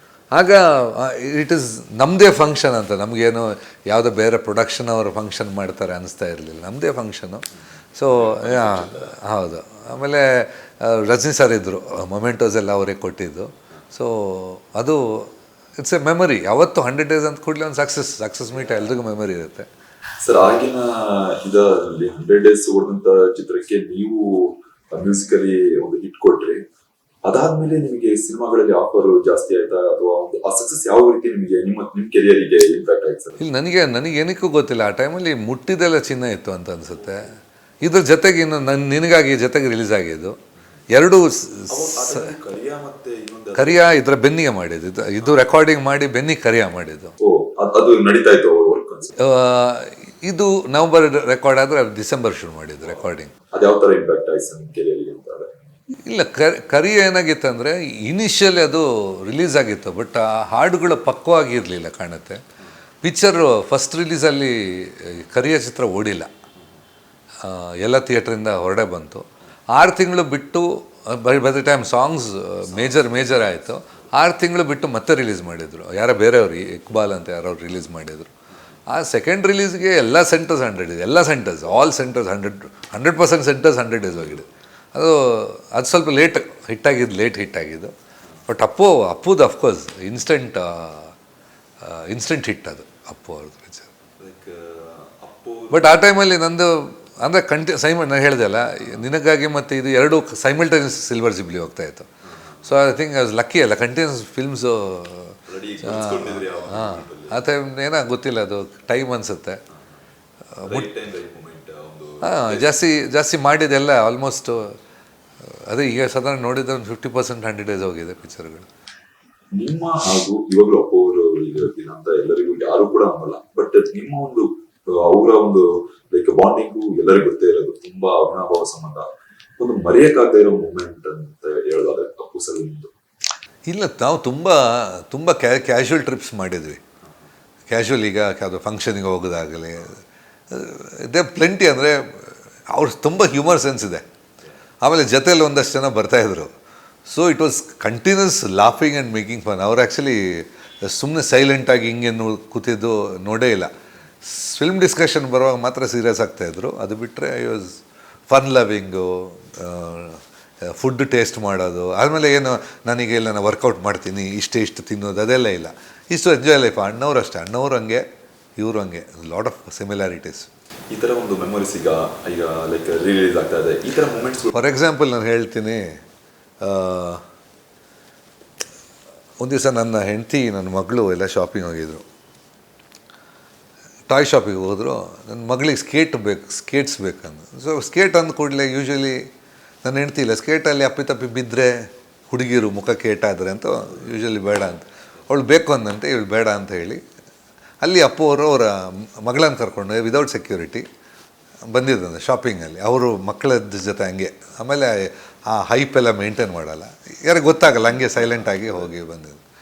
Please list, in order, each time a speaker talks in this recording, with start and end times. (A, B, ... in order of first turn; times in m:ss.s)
0:00.3-0:19.7 A
0:08.1-0:09.1 B
0:18.6-0:18.9 B
0:20.2-0:26.6 B
0:27.2-0:33.4 B
0:33.4-0:40.4 A
0:40.9-0:42.3 A
0:41.7-0:43.9 B
0:43.6-0:47.1 A
0:47.2-0:49.3 B
0:49.2-0:53.3 A
0:52.8-0:55.5 B
0:56.0-1:02.4 A
1:03.0-1:06.3 A
1:07.4-1:18.3 A
1:12.7-1:13.4 B
1:18.9-1:27.9 A
1:28.5-1:31.1 A
1:31.8-1:33.9 A
1:34.2-1:36.0 B
1:35.7-1:42.1 A
1:42.2-1:42.6 B
1:42.6-1:49.6 A
1:45.5-1:47.4 B
1:50.5-1:50.9 A
1:50.6-1:52.7 B
1:52.2-1:54.8 A
1:55.4-1:58.7 A
1:59.5-2:09.1 B
2:09.6-2:12.9 B
2:13.7-2:16.8 A
2:17.7-2:20.0 A
2:20.5-2:24.0 A
2:24.8-2:26.5 A
2:27.1-2:33.7 A
2:34.2-2:48.0 A
2:48.6-2:50.5 A
2:50.9-2:54.5 B
2:54.5-2:56.0 A
2:56.6-2:57.2 A
2:59.4-3:02.0 A
3:04.1-3:09.2 A
3:09.8-3:17.0 A
3:17.8-3:20.8 A
3:21.7-3:29.4 A
3:27.9-3:28.9 B